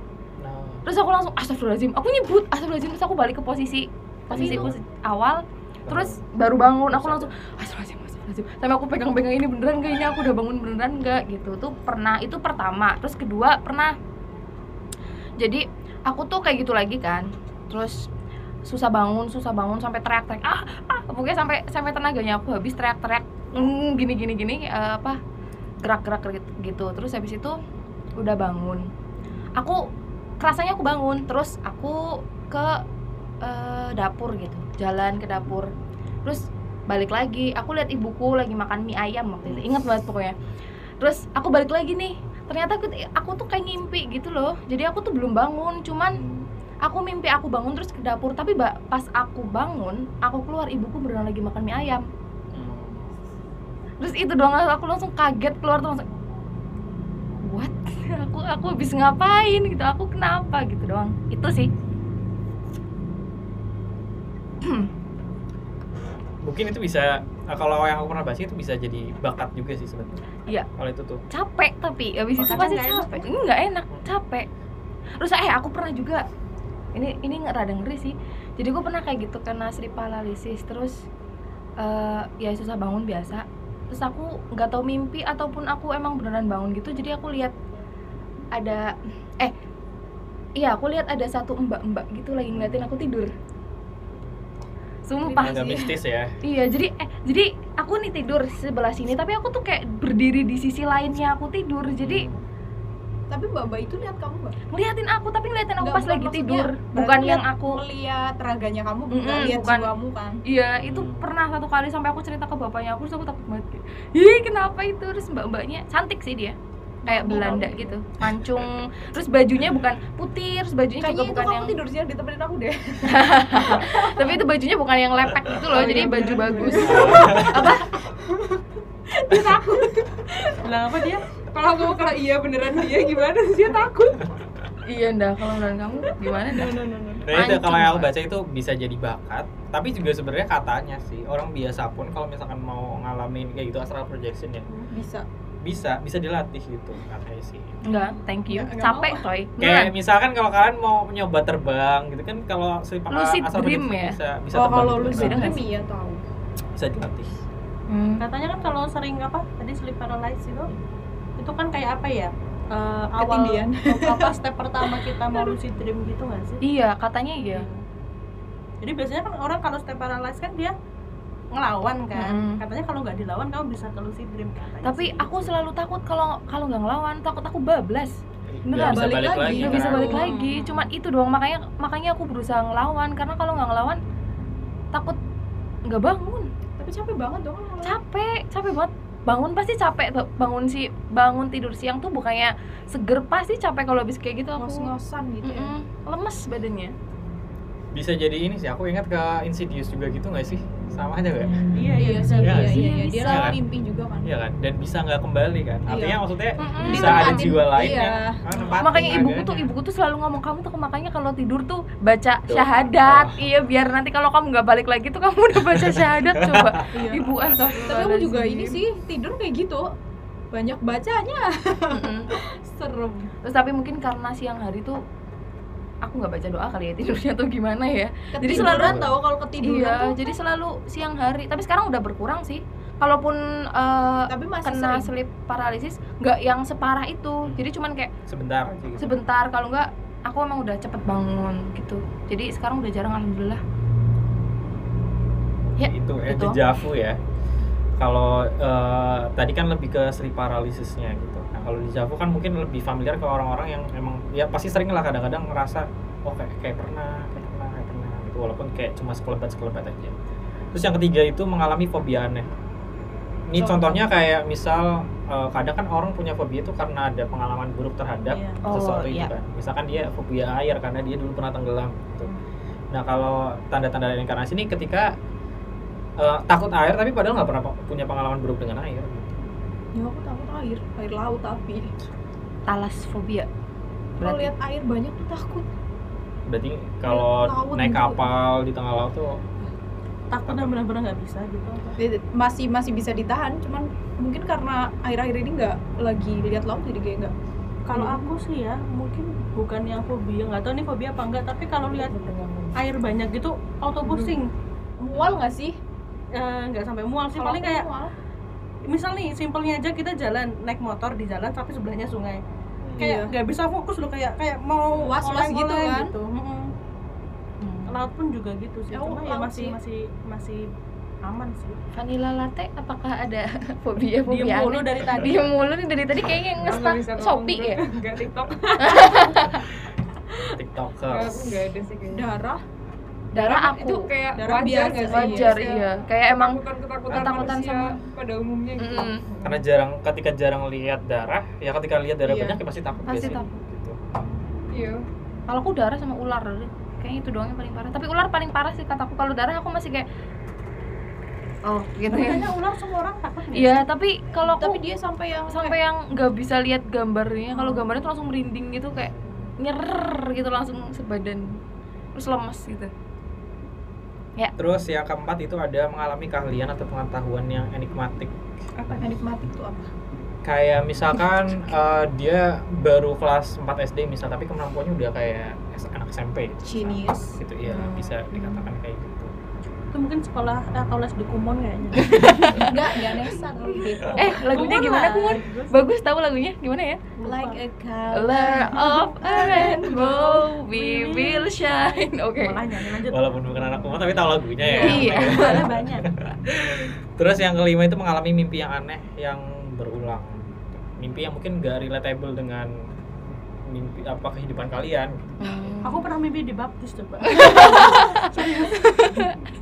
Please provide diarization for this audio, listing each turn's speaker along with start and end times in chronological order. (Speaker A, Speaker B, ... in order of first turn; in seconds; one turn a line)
Speaker A: 0.4-0.8
Speaker B: 0.8-13.9
Speaker A: 4.3-4.8
Speaker A: 5.9-6.2
Speaker A: 6.9-7.3
Speaker B: 15.4-18.1
Speaker B: 18.6-25.2
Speaker B: 25.8-27.6
Speaker B: 28.2-28.9
Speaker B: 29.6-29.9
Speaker B: 30.4-32.8
Speaker B: 33.4-35.7
Speaker B: 36.2-40.3
Speaker B: 41.0-46.2
Speaker A: 46.1-46.5
Speaker B: 46.8-52.0
Speaker A: 52.5-53.0
Speaker B: 54.0-56.1
Speaker B: 57.4-61.7
Speaker B: 64.6-64.9
Speaker A: 66.4-71.2
Speaker B: 71.3-74.5
Speaker C: 72.4-73.3
Speaker B: 75.2-76.2
Speaker B: 76.9-81.0
Speaker B: 81.8-87.5
Speaker B: 88.5-89.5
Speaker B: 90.6-93.3
Speaker A: 92.5-92.9
Speaker B: 95.1-95.9
Speaker D: 95.2-95.8
Speaker A: 95.4-96.3
Speaker B: 96.4-102.3
Speaker A: 102.0-102.4
Speaker D: 103.3-104.5
Speaker B: 104.7-107.8
Speaker D: 105.8-110.4
Speaker B: 109.1-109.9
Speaker B: 110.4-121.8
Speaker A: 110.8-111.3
Speaker D: 117.0-118.0
Speaker D: 121.0-124.4
Speaker B: 123.0-127.9
Speaker D: 125.7-130.6
Speaker E: 125.8-126.9
Speaker A: 126.8-127.7
Speaker E: 129.3-129.8
Speaker C: 130.6-131.2
Speaker E: 131.5-134.3
Speaker B: 134.8-138.1
Speaker D: 136.2-137.3
Speaker A: 137.2-144.7
Speaker D: 144.8-145.2
Speaker A: 145.6-147.8
Speaker B: 147.8-149.9
Speaker D: 148.5-149.2
Speaker A: 149.6-155.6
Speaker B: 153.1-154.2
Speaker D: 154.5-156.2
Speaker B: 155.1-155.6
Speaker A: 156.8-157.4
Speaker B: 157.9-158.2
Speaker C: 158.2-160.7
Speaker C: 161.4-166.6
Speaker D: 163.2-165.5
Speaker B: 166.6-167.7
Speaker C: 167.4-167.8
Speaker C: 168.8-170.7
Speaker C: 171.5-175.6
Speaker B: 172.1-172.6
Speaker B: 174.8-184.0
Speaker A: 178.5-180.3
Speaker D: 178.7-180.3
Speaker C: 180.3-180.7
Speaker B: 184.9-185.2
Speaker B: 185.8-186.5
Speaker D: 186.8-188.0
Speaker B: 187.8-196.9
Speaker D: 194.6-195.7
Speaker A: 197.9-201.7
Speaker C: 201.7-202.7
Speaker D: 201.9-204.3
Speaker A: 202.4-203.6
Speaker B: 202.5-203.6
Speaker A: 204.2-209.7
Speaker D: 205.9-206.2
Speaker B: 206.6-207.9
Speaker D: 206.8-209.2
Speaker B: 208.8-218.8
Speaker A: 212.5-213.5
Speaker A: 215.6-216.8
Speaker D: 216.9-217.3
Speaker D: 217.8-219.9
Speaker D: 220.5-223.3
Speaker B: 221.9-222.3
Speaker B: 223.4-225.0
Speaker B: 226.0-229.1
Speaker D: 228.3-230.2
Speaker A: 228.4-229.2
Speaker B: 229.6-238.1
Speaker D: 234.3-235.1
Speaker A: 237.4-237.7
Speaker A: 238.3-239.2
Speaker B: 239.0-243.6
Speaker B: 245.8-246.6
Speaker A: 245.8-247.2
Speaker A: 248.0-260.1
Speaker A: 260.7-262.5
Speaker A: 263.5-272.3
Speaker C: 268.3-268.6
Speaker B: 268.6-269.3
Speaker A: 272.9-275.1
Speaker A: 276.2-279.4
Speaker D: 279.9-281.9
Speaker B: 282.7-283.5
Speaker D: 284.2-285.7
Speaker B: 284.2-284.5
Speaker A: 286.5-289.4
Speaker D: 287.1-288.2
Speaker C: 290.3-292.0
Speaker A: 290.4-290.8
Speaker D: 292.0-297.3
Speaker C: 297.9-302.1
Speaker D: 297.9-298.3
Speaker B: 301.9-302.8
Speaker C: 302.7-304.5
Speaker D: 305.0-305.8
Speaker A: 305.1-305.4
Speaker C: 306.3-307.9
Speaker D: 307.3-308.1
Speaker C: 308.8-312.4
Speaker A: 312.8-313.1
Speaker D: 313.0-313.3
Speaker C: 313.0-316.7
Speaker D: 315.0-316.1
Speaker B: 317.6-318.0
Speaker C: 317.9-320.6
Speaker D: 318.9-319.8
Speaker C: 321.2-321.8
Speaker B: 321.9-327.8
Speaker C: 324.3-325.5
Speaker E: 326.6-329.4
Speaker B: 328.8-329.6
Speaker A: 330.5-331.6
Speaker E: 331.1-332.3
Speaker D: 332.1-332.6
Speaker B: 333.3-334.1
Speaker E: 333.3-339.6
Speaker D: 334.4-335.8
Speaker B: 335.0-336.6
Speaker A: 337.1-337.6
Speaker B: 337.1-337.9
Speaker B: 338.8-339.2
Speaker A: 339.4-344.0
Speaker D: 342.2-342.6
Speaker B: 343.1-343.5
Speaker E: 344.7-345.0
Speaker B: 345.5-350.1
Speaker B: 351.6-352.5
Speaker C: 352.1-353.8
Speaker B: 353.5-354.8
Speaker D: 354.4-355.8
Speaker B: 355.5-361.6
Speaker D: 357.5-357.8
Speaker A: 358.9-359.5
Speaker B: 362.1-362.9
Speaker A: 364.6-368.4
Speaker D: 368.8-369.9
Speaker A: 370.4-379.3
Speaker D: 376.6-377.4
Speaker B: 377.6-378.6
Speaker C: 379.9-382.7
Speaker B: 381.9-382.8
Speaker D: 382.5-384.3
Speaker C: 384.1-385.8
Speaker B: 384.1-387.0
Speaker C: 387.2-387.6
Speaker D: 387.2-390.5
Speaker B: 388.1-392.6
Speaker C: 390.7-393.3
Speaker A: 393.1-402.7
Speaker C: 394.6-396.1
Speaker B: 394.8-395.6
Speaker A: 403.7-405.3
Speaker B: 405.4-406.0
Speaker C: 405.8-408.9
Speaker B: 407.2-409.3
Speaker D: 407.6-407.9